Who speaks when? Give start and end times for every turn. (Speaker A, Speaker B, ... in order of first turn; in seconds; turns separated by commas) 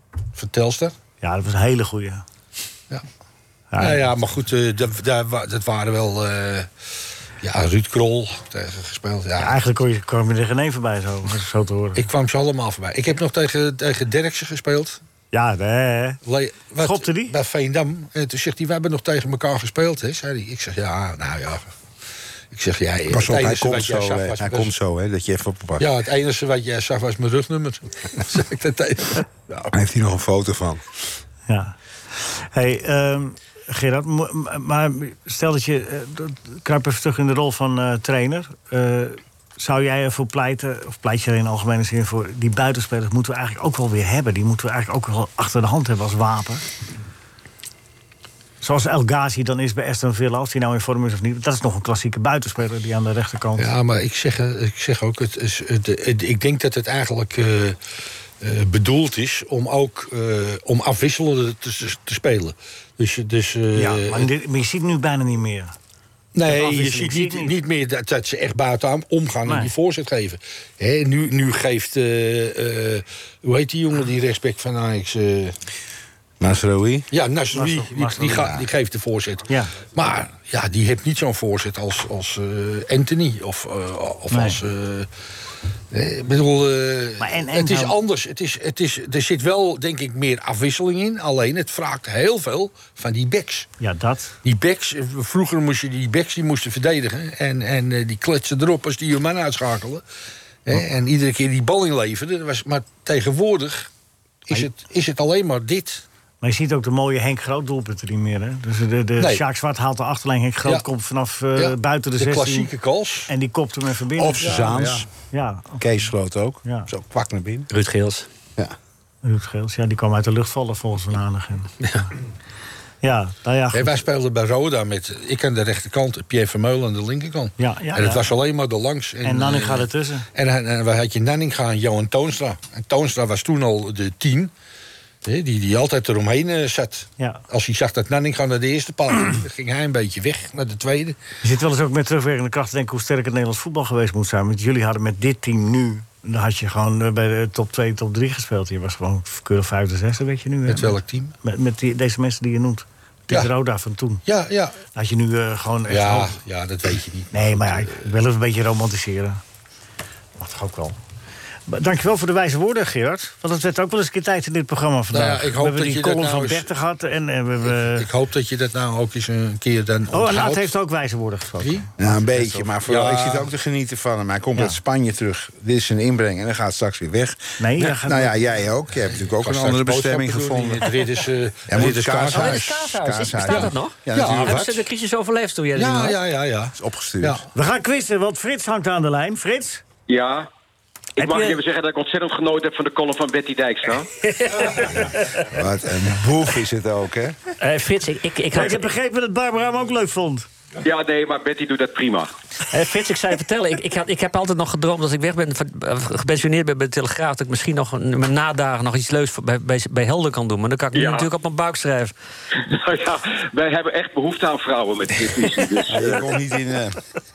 Speaker A: 0.3-0.9, Speaker B: 1.2-2.2, Speaker B: 3.7-4.1, Speaker A: 3.8-6.7, Speaker A: 7.4-9.6, Speaker B: 9.4-12.0, Speaker A: 11.9-15.0, Speaker B: 15.3-16.2, Speaker A: 16.2-21.6, Speaker B: 16.8-17.3, Speaker A: 22.5-24.7, Speaker C: 23.1-25.9, Speaker A: 25.8-29.7, Speaker C: 29.7-30.8, Speaker B: 31.5-46.6, Speaker B: 48.6-53.7, Speaker A: 53.6-57.8, Speaker A: 58.4-64.3, Speaker B: 63.8-65.7, Speaker A: 66.3-75.5, Speaker B: 66.5-67.5, Speaker B: 69.5-69.7, Speaker C: 76.4-77.1, Speaker A: 77.1-85.1, Speaker B: 77.5-78.6, Speaker B: 79.5-79.7, Speaker B: 84.3-84.6, Speaker A: 85.9-93.7, Speaker B: 87.2-88.0, Speaker B: 93.8-94.3, Speaker A: 94.4-100.0, Speaker A: 100.6-103.9, Speaker A: 104.5-106.0, Speaker B: 106.4-112.7, Speaker A: 109.2-109.4, Speaker A: 111.5-113.3, Speaker B: 113.3-114.5, Speaker C: 114.1-115.1, Speaker A: 114.4-115.1, Speaker B: 115.3-115.8, Speaker C: 115.8-117.7, Speaker D: 117.7-118.2, Speaker B: 119.2-121.7, Speaker B: 123.0-124.0, Speaker A: 123.7-134.5, Speaker B: 127.6-128.2, Speaker B: 129.2-130.3, Speaker A: 135.2-141.2, Speaker B: 141.4-154.2, Speaker A: 150.7-151.3, Speaker A: 154.2-154.8, Speaker B: 154.9-156.3, Speaker A: 155.9-158.0, Speaker B: 157.3-159.4, Speaker B: 160.4-160.9, Speaker B: 161.7-168.1, Speaker A: 165.1-166.7, Speaker A: 167.6-170.7, Speaker B: 170.1-172.6, Speaker A: 171.6-171.9, Speaker C: 172.0-180.9, Speaker A: 172.8-173.5, Speaker B: 177.6-178.4, Speaker A: 179.0-182.8, Speaker C: 181.7-184.7, Speaker D: 182.3-186.2, Speaker A: 184.1-184.8, Speaker A: 185.7-187.5, Speaker C: 186.7-187.4, Speaker B: 187.5-189.8, Speaker E: 190.1-190.5, Speaker E: 191.2-194.1, Speaker B: 191.2-191.6, Speaker D: 194.2-195.4, Speaker C: 195.2-197.4, Speaker D: 197.6-198.9, Speaker B: 198.5-200.5, Speaker E: 200.8-202.3, Speaker D: 202.7-212.1, Speaker E: 210.9-211.3, Speaker E: 212.6-216.3, Speaker C: 215.9-217.0